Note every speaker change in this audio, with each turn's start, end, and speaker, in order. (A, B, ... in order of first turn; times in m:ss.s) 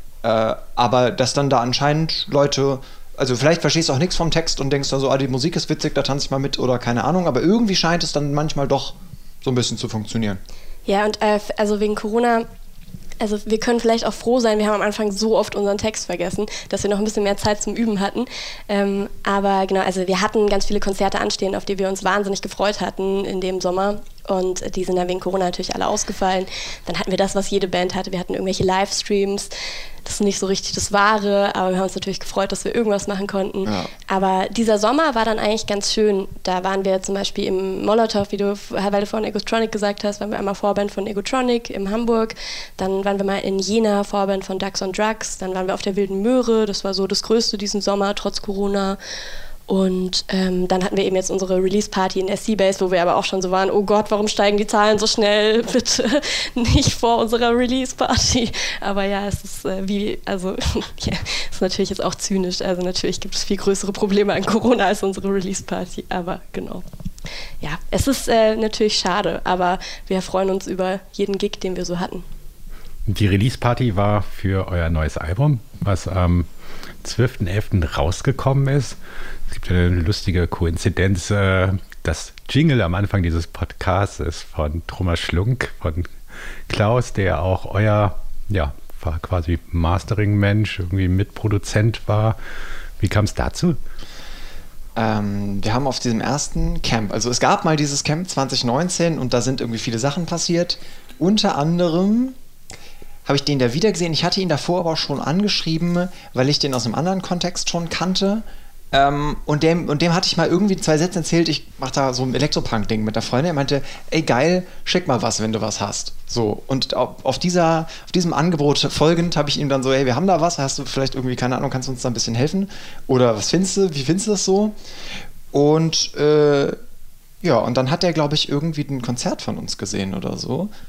0:00.2-0:10.4 A
0:10.9-0:12.5 B
0:13.2-0:29.5 B
0:30.0-0:49.0 B
0:33.6-0:33.9 A
0:49.7-1:06.8 B
1:07.6-1:12.2 B
1:13.1-1:16.5 C
1:17.0-1:19.0 C
1:19.5-1:26.1 C
1:26.7-1:32.4 C
1:33.0-1:33.8 C
1:35.0-1:42.4 A
1:43.3-2:04.8 A
2:05.5-2:06.8 A
2:07.4-2:10.7 A